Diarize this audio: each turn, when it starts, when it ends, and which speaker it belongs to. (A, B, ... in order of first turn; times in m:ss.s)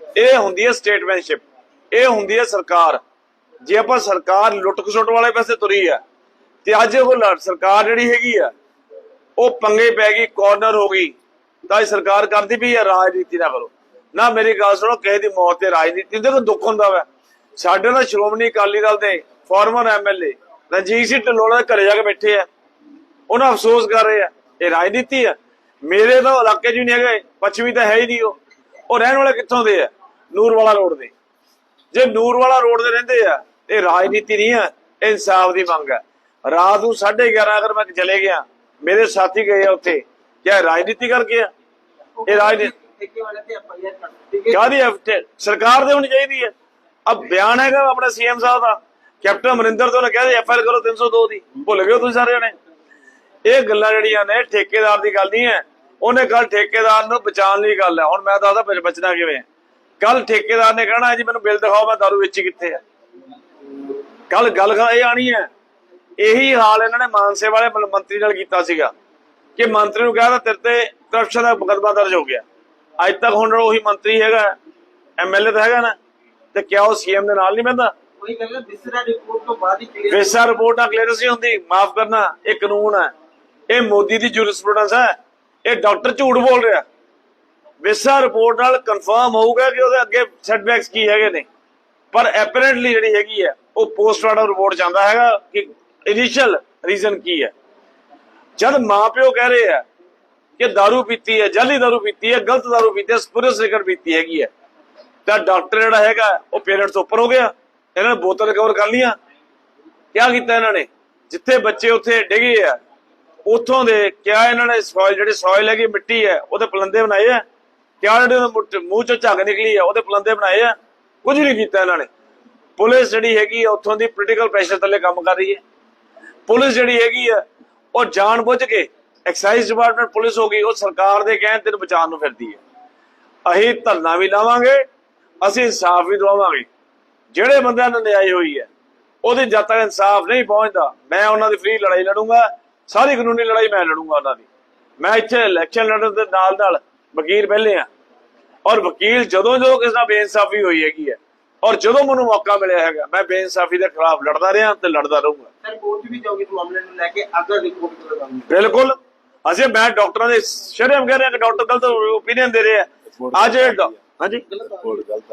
0:00.2-0:03.0 A
0:03.6-0:06.0 A
0:06.6-0:08.5 A
0:09.4-0:11.2 A
0:11.7-0:17.1 A
0:17.6-0:22.5 A
0:23.3-0:28.4 A
0:28.9-0:31.1 A
0:31.9-0:41.5 A
0:42.2-0:44.7 B
0:42.3-0:42.7 A
0:44.5-0:46.5 A
0:47.1-0:52.6 A
0:53.5-0:59.4 A
1:00.0-1:02.8 A
1:04.3-1:05.5 A
1:06.2-1:08.9 A
1:09.6-1:12.4 A
1:13.0-1:14.6 A
1:15.2-1:16.0 A
1:16.5-1:17.9 A
1:18.2-1:20.4 B
1:20.1-1:23.1 A
1:23.7-1:26.8 A
1:27.8-1:31.5 A
1:32.1-1:37.5 A
1:38.6-1:39.8 A
1:40.6-1:44.5 A
1:45.3-1:49.2 A
1:50.1-1:52.8 A
1:53.5-1:57.4 A
1:58.0-2:02.1 A
2:02.8-2:05.6 A
2:06.5-2:07.4 A
2:07.9-2:12.6 A
2:13.5-2:14.9 A
2:15.4-2:16.7 A
2:17.3-2:18.7 A
2:19.2-2:24.5 A
2:25.0-2:27.9 A
2:28.7-2:35.5 A
2:35.6-2:38.5 B
2:38.5-2:39.0 A
2:39.5-2:44.5 A
2:44.6-2:44.9 B